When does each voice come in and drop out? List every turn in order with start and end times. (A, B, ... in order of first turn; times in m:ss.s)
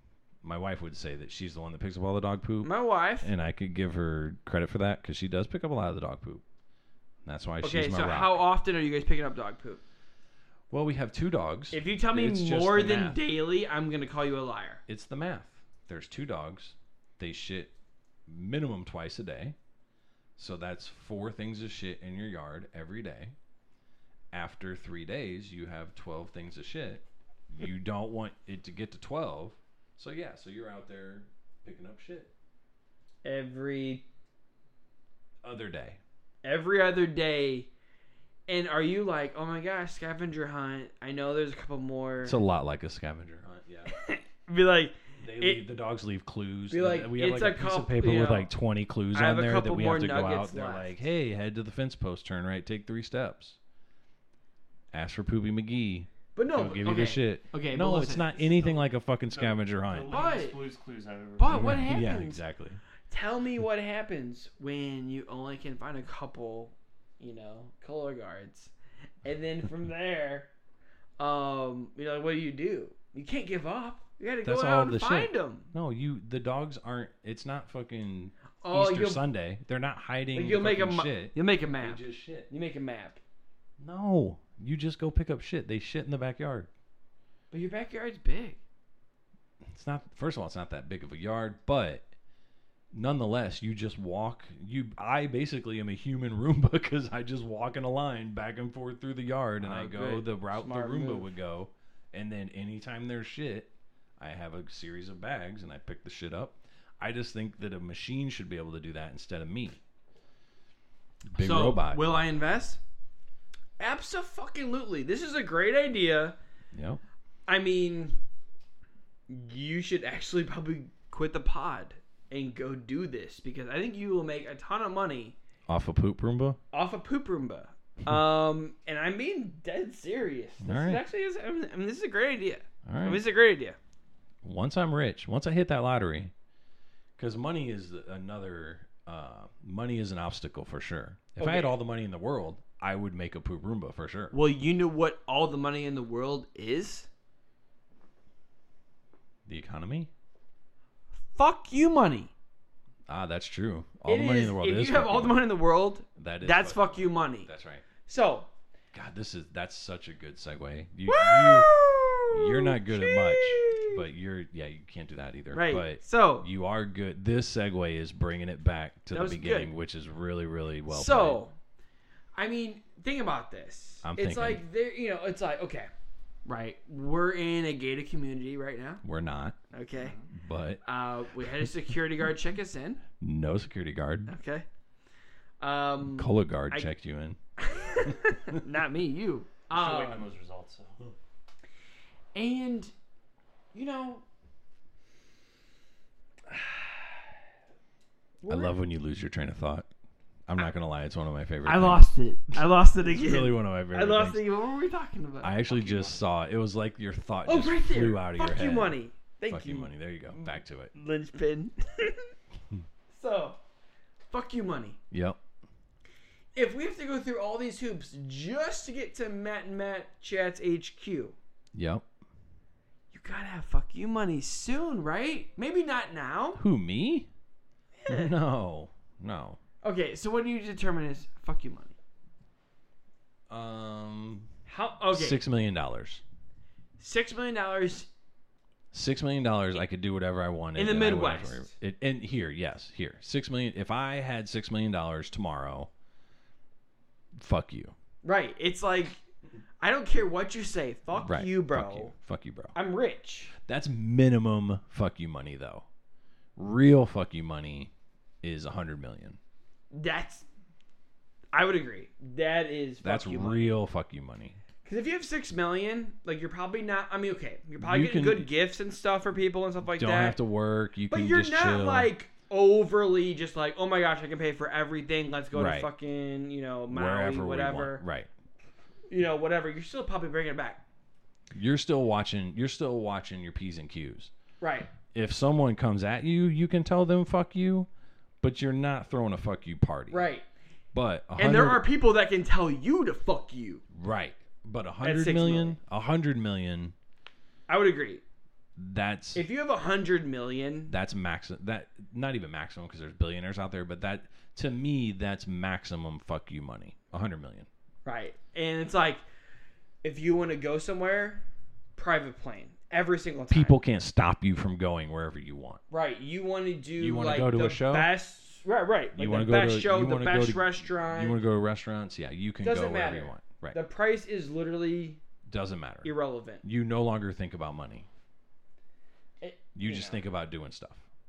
0:00.4-0:06.4 A
0:02.6-0:03.3 B
0:07.2-0:08.4 A
0:07.6-0:09.8 B
0:10.7-0:13.2 A
0:11.7-0:14.8 B
0:14.9-0:17.7 A
0:18.3-0:19.6 A
0:20.4-0:23.3 A
0:24.3-0:32.3 A
0:33.2-0:34.0 B
0:35.4-0:36.0 A
0:36.4-0:37.7 B
0:38.5-0:42.4 B
0:42.2-0:43.9 A
0:43.9-0:45.7 B
0:45.2-0:53.6 A
0:46.7-0:48.5 B
0:49.1-0:51.0 B
0:54.9-1:00.2 A
0:56.3-0:58.8 B
0:59.3-1:01.9 C
1:00.1-1:00.6 B
1:01.4-1:02.4 B
1:01.5-1:02.8 A
1:03.1-1:08.7 B
1:09.2-1:10.5 B
1:11.2-1:15.7 B
1:14.4-1:22.5 A
1:18.6-1:19.2 B
1:20.3-1:23.2 B
1:23.8-1:26.7 A
1:27.5-1:28.6 B
1:29.6-1:32.1 A
1:32.9-1:49.8 A
1:39.6-1:41.3 B
1:51.3-1:52.1 A
1:51.4-1:52.8 B
1:53.8-1:56.4 B
1:56.7-1:57.0 A
1:57.5-1:58.2 B
1:59.3-2:05.4 B
2:05.7-2:06.6 A
2:06.7-2:13.8 B
2:10.6-2:11.0 A
2:12.8-2:13.2 A
2:14.4-2:16.3 A
2:17.2-2:24.3 A
2:21.4-2:21.7 B
2:24.3-2:27.1 B
2:29.4-2:30.1 A
2:31.3-2:32.3 B
2:33.1-2:35.4 A
2:34.0-2:37.5 B
2:36.1-2:37.8 A
2:38.0-2:38.5 B
2:38.9-2:51.4 A
2:41.1-2:44.0 B
2:45.5-2:46.5 B
2:49.1-2:49.7 B
2:50.9-2:51.5 B
2:52.4-2:55.9 B
2:54.0-2:54.6 A
2:56.4-2:59.0 B
2:59.0-2:59.6 A
2:59.7-3:00.2 B
3:00.0-3:00.3 C
3:00.3-3:00.8 A
3:00.8-3:03.0 B
3:01.4-3:01.7 A
3:03.2-3:04.3 A
3:04.3-3:04.6 B
3:05.6-3:06.9 B
3:06.2-3:07.4 A
3:07.6-3:10.3 B
3:09.7-3:11.0 C
3:12.3-3:12.9 B
3:13.7-3:14.2 B
3:16.5-3:17.1 B
3:18.4-3:18.8 B
3:18.5-3:19.9 A
3:20.5-3:22.1 A
3:21.6-3:25.6 B
3:23.0-3:24.5 A
3:25.4-3:29.0 A
3:25.6-3:26.2 C
3:27.4-3:32.3 B
3:29.5-3:30.9 A
3:33.1-3:33.6 B
3:34.3-3:35.0 B
3:35.1-3:35.4 A
3:36.5-3:41.4 B
3:41.7-3:42.0 A
3:43.1-3:46.6 B
3:46.6-3:47.3 A
3:48.0-3:48.3 B
3:48.1-3:49.6 A
3:49.8-3:51.9 B
3:53.5-3:54.5 A
3:54.6-3:55.4 B
3:55.1-3:56.2 A
3:57.0-3:58.1 B
3:58.9-4:05.9 A
4:00.8-4:01.7 B
4:07.4-4:07.9 A
4:08.2-4:09.2 B
4:09.8-4:12.1 B
4:11.2-4:12.8 A
4:12.7-4:13.5 B
4:13.6-4:15.9 A
4:16.6-4:17.9 A
4:18.4-4:19.4 A
4:19.9-4:20.4 B
4:21.5-4:23.7 B
4:23.0-4:24.6 A
4:24.8-4:30.4 B
4:27.8-4:28.5 A
4:29.8-4:32.1 A
4:31.1-4:38.0 B
4:35.5-4:35.9 A
4:36.9-4:38.3 A
4:39.1-4:40.8 B
4:41.5-4:44.3 A
4:44.6-4:44.9 B
4:45.1-4:47.9 A
4:48.4-4:50.3 A
4:50.1-4:50.4 B
4:50.9-4:51.8 A
4:51.3-4:53.8 B
4:53.9-4:56.9 A
4:55.0-4:55.8 B
4:57.7-4:58.2 B
4:58.8-4:59.5 A
4:59.3-5:00.9 B
5:00.9-5:07.7 A
5:08.0-5:09.2 B
5:10.0-5:11.4 B
5:12.0-5:13.8 B
5:13.5-5:15.8 A
5:15.9-5:21.4 B
5:17.0-5:18.1 A
5:19.1-5:23.8 A
5:22.6-5:25.2 B
5:25.4-5:28.1 A
5:26.0-5:26.6 B
5:29.4-5:30.2 B
5:29.7-5:31.0 A